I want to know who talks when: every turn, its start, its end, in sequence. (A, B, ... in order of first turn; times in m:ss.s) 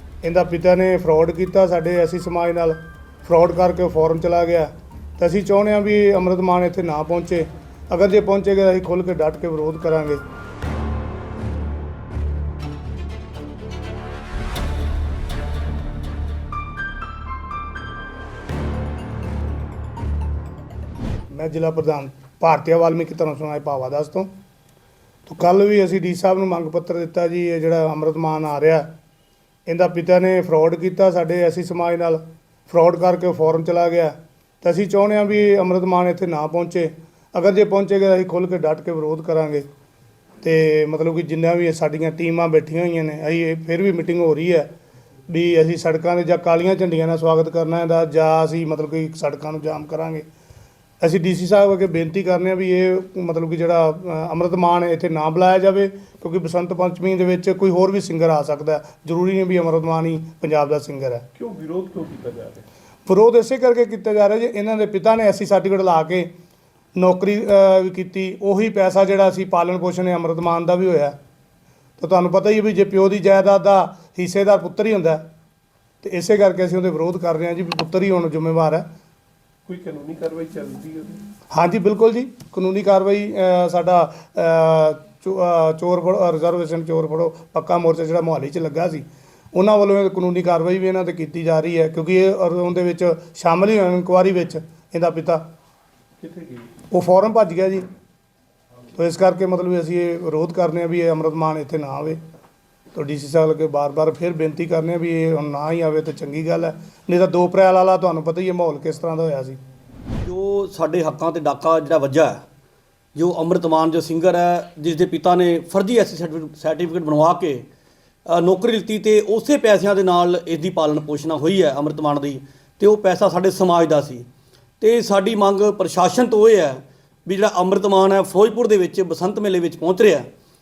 0:00.2-0:10.2 A
0:21.3-0:24.3 A
0:25.2-0:28.8 A
0:29.7-0:39.6 A
0:40.4-0:44.7 A
0:45.3-0:50.2 A
0:51.0-1:01.2 A
1:01.4-1:02.6 B
1:03.0-1:06.3 A
1:07.0-1:11.1 A
1:12.0-1:15.2 A
1:16.0-1:18.8 A
1:19.6-1:21.2 B
1:21.5-1:35.4 A
1:36.2-1:36.7 B
1:36.9-1:37.8 A
1:38.9-1:42.2 A
1:42.9-1:49.6 A
1:50.2-1:52.4 C
1:53.1-1:57.6 C
1:58.3-2:04.3 C
2:04.8-2:10.3 C